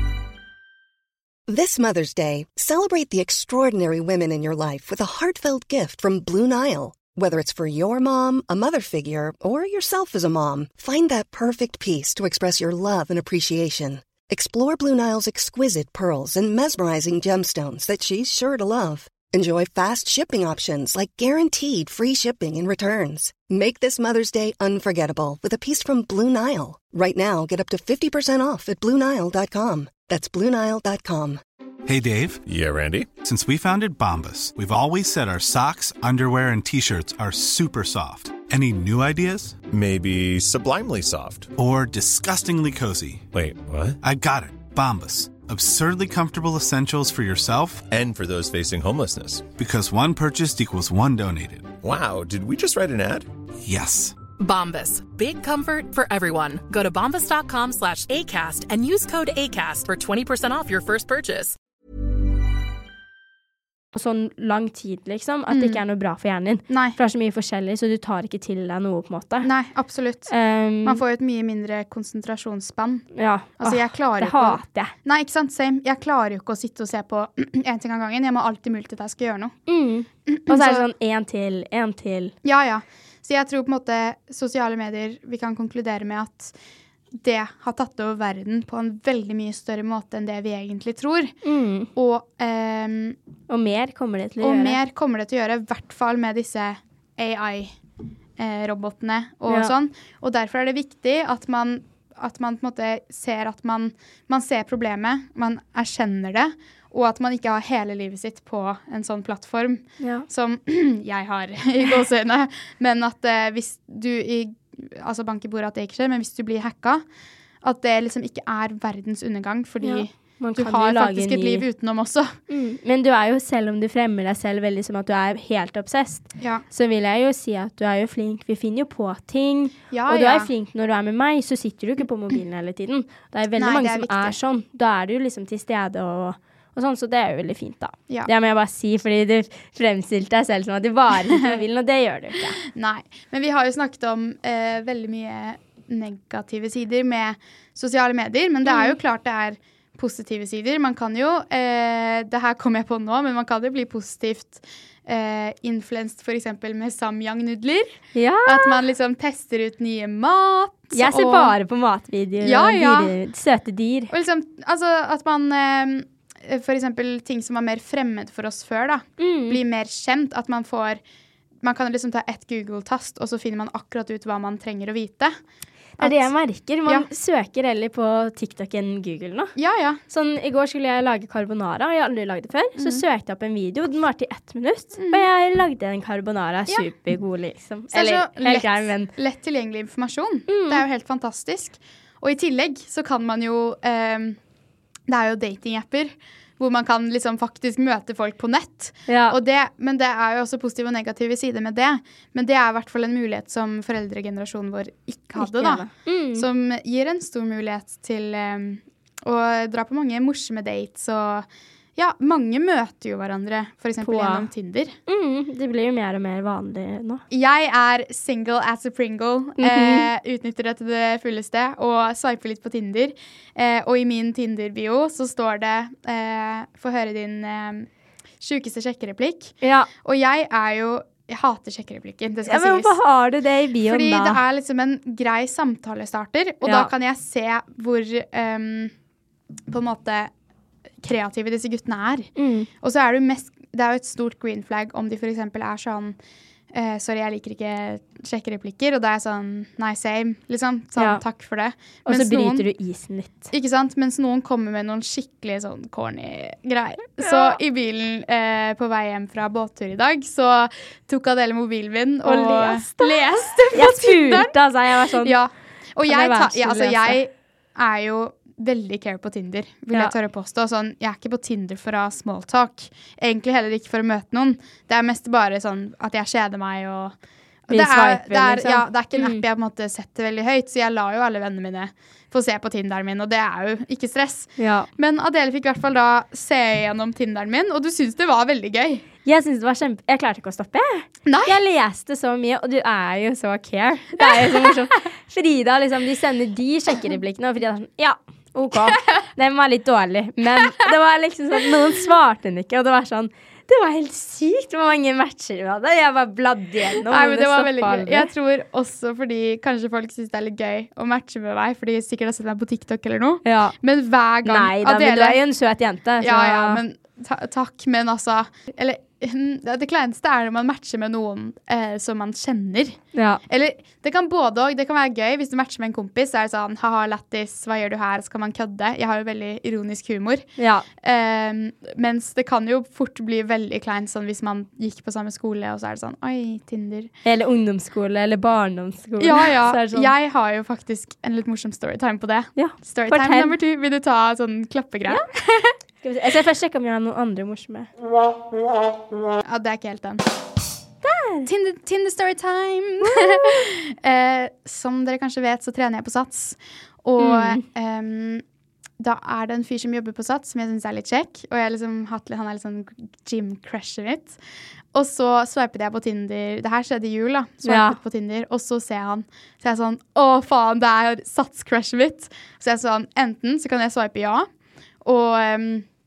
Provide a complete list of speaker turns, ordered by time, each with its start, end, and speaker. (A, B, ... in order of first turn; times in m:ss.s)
0:01.5-0:31.4 A
0:31.8-0:32.4 B
0:32.4-0:33.1 C
0:33.2-0:39.6 B
0:39.7-0:41.5 C
0:41.6-0:43.2 B
0:43.3-0:44.0 C
0:44.0-0:47.8 B
0:47.9-0:49.5 C
0:49.6-0:51.7 B
0:51.8-0:53.3 C
0:53.6-0:54.2 B
0:54.4-1:01.5 D
1:03.9-1:09.5 E
1:05.5-1:05.8 F
1:06.7-1:07.0 F
1:09.4-1:10.3 F
1:10.3-1:11.0 E
1:10.8-1:13.0 F
1:13.1-1:14.9 E
1:13.6-1:19.6 F
1:19.7-1:22.3 E
1:20.3-1:20.8 F
1:22.4-1:26.5 F
1:27.1-1:31.3 F
1:31.4-1:31.9 E
1:31.9-1:33.2 F
1:33.5-1:34.8 E
1:34.4-1:37.7 F
1:38.4-1:57.0 F
1:50.0-1:50.2 E
1:57.6-2:02.3 F
1:59.8-2:01.6 E
2:02.5-2:22.6 E
2:09.9-2:10.5 F
2:13.6-2:14.4 F
2:22.7-2:41.5 F
2:28.6-2:29.0 E
2:38.1-2:38.8 E
2:40.9-2:44.1 E
2:42.4-2:43.1 F
2:44.1-2:51.0 F
2:49.2-2:49.6 E
2:51.6-2:55.4 F
2:56.0-2:56.3 F
2:56.0-2:59.5 E
2:59.6-3:00.0 F
3:00.1-3:09.1 E
3:02.8-3:03.0 F
3:07.9-3:14.4 F
3:10.5-3:10.8 E
3:15.1-3:34.9 F
3:19.1-3:19.4 E
3:25.4-3:26.5 E
3:34.0-3:34.5 E
3:35.1-3:37.2 E
3:37.3-3:47.9 F
3:39.6-3:40.1 E
3:48.4-3:52.9 F
3:49.6-3:49.9 E
3:52.4-3:54.4 E
3:53.8-3:58.9 F
3:56.6-3:56.9 E
3:59.7-4:00.3 F
4:01.0-4:06.2 F
4:02.4-4:02.7 E
4:06.7-4:12.6 F
4:11.0-4:11.2 E
4:12.0-4:13.5 E
4:13.5-4:24.6 F
4:17.2-4:17.6 E
4:22.2-4:25.4 E
4:25.2-4:37.1 F
4:26.0-4:27.2 E
4:37.7-4:49.0 F
4:37.7-4:39.4 E
4:44.6-4:44.9 E
4:49.2-5:08.3 E
4:51.3-4:51.5 F
4:54.2-4:54.7 F
5:07.0-5:15.4 F
5:13.4-5:13.8 E
5:14.4-5:16.8 E
5:16.2-5:30.4 F
5:23.1-5:23.4 E
5:30.6-5:30.8 E
5:31.0-5:37.1 F
5:37.2-5:40.1 E
5:39.2-5:45.7 F
5:42.6-5:43.6 E
5:46.0-5:47.9 E
5:49.4-5:50.2 F
5:51.0-5:51.5 E
5:51.4-5:58.4 F
5:53.1-5:53.6 E
5:57.2-5:57.6 E
5:59.0-6:04.4 F
6:04.9-6:14.5 F
6:07.6-6:08.0 E
6:15.0-6:15.8 F